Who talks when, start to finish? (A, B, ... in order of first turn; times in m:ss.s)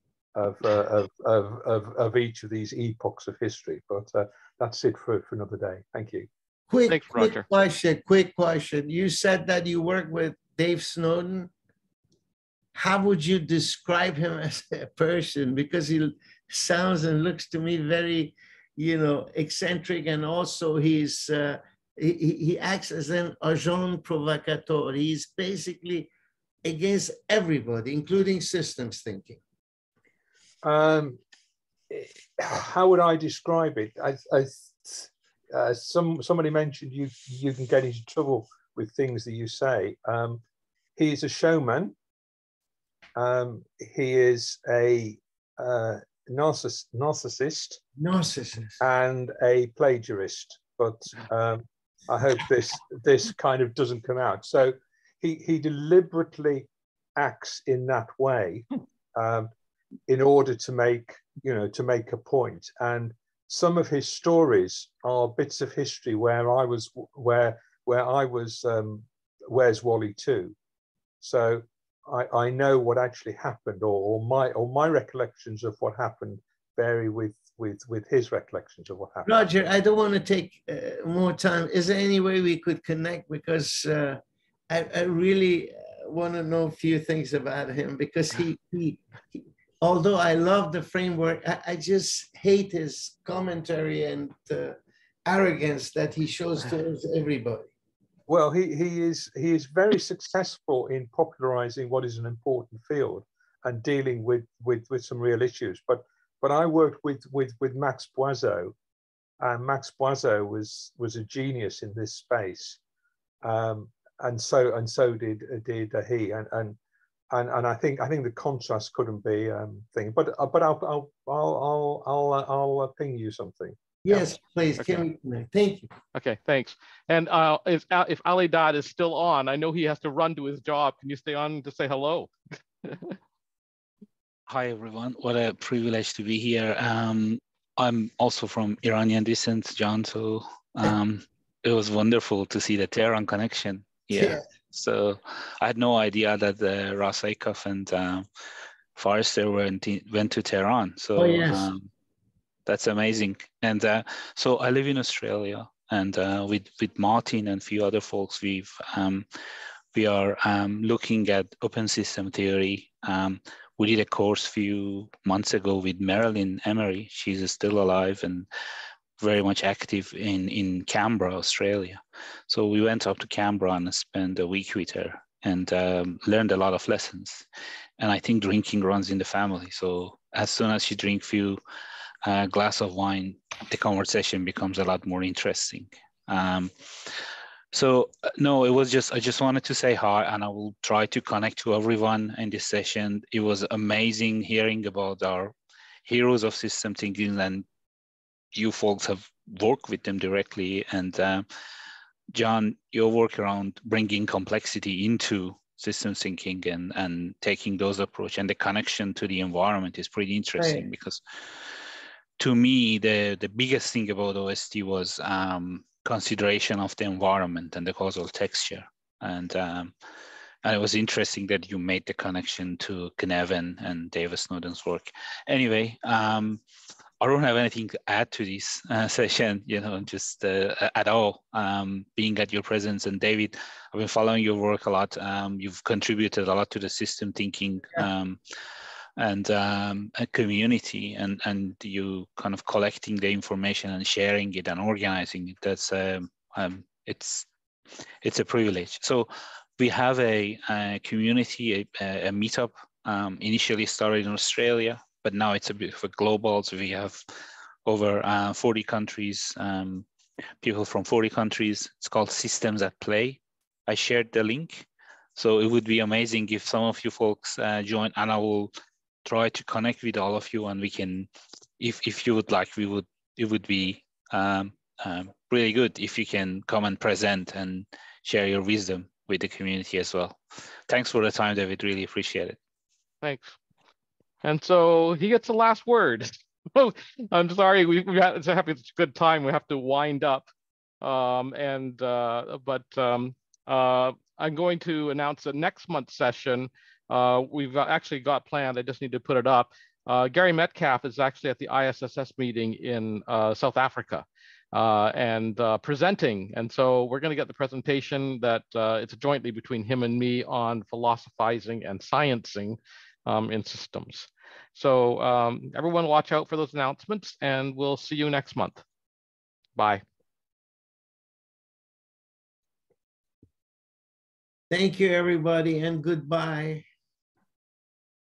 0:00.4-0:06.3 A
0:06.7-0:11.5 B
0:06.9-0:07.5 C
0:12.8-0:26.1 B
0:26.6-0:29.4 B
0:30.6-0:31.2 A
0:31.9-0:40.4 A
0:41.0-0:41.9 A
0:43.2-0:47.8 A
0:48.0-0:48.8 B
0:48.8-0:59.5 A
1:00.1-1:10.6 A
1:11.2-1:19.5 A
1:19.3-1:37.7 B
1:38.3-1:48.8 A
1:49.4-1:52.8 A
1:53.4-1:56.8 A
1:57.3-2:03.8 A
2:04.0-2:05.9 B
2:04.8-2:05.0 C
2:06.1-2:12.3 C
2:12.8-2:13.2 C
2:14.5-2:28.3 D
2:24.1-2:24.4 B
2:29.0-2:31.9 D
2:31.2-2:31.7 B
2:32.7-2:39.3 D
2:39.9-2:48.5 D
2:49.2-2:57.4 D
2:58.0-3:01.6 D
3:02.2-3:07.1 D
3:07.7-3:15.5 D
3:16.1-3:17.6 D
3:18.5-3:21.5 D
3:22.3-3:31.2 D
3:30.6-3:30.9 B
3:32.4-3:39.9 D
3:40.6-3:46.6 D
3:47.2-3:58.4 D
3:59.2-4:07.5 D
4:08.2-4:17.2 D
4:17.9-4:20.1 D
4:20.6-4:28.7 D
4:29.2-4:31.3 D
4:31.8-4:42.6 D
4:43.2-4:43.6 C
4:44.4-4:50.5 C
4:51.0-5:18.8 C
5:19.8-5:20.0 C
5:24.7-5:26.8 B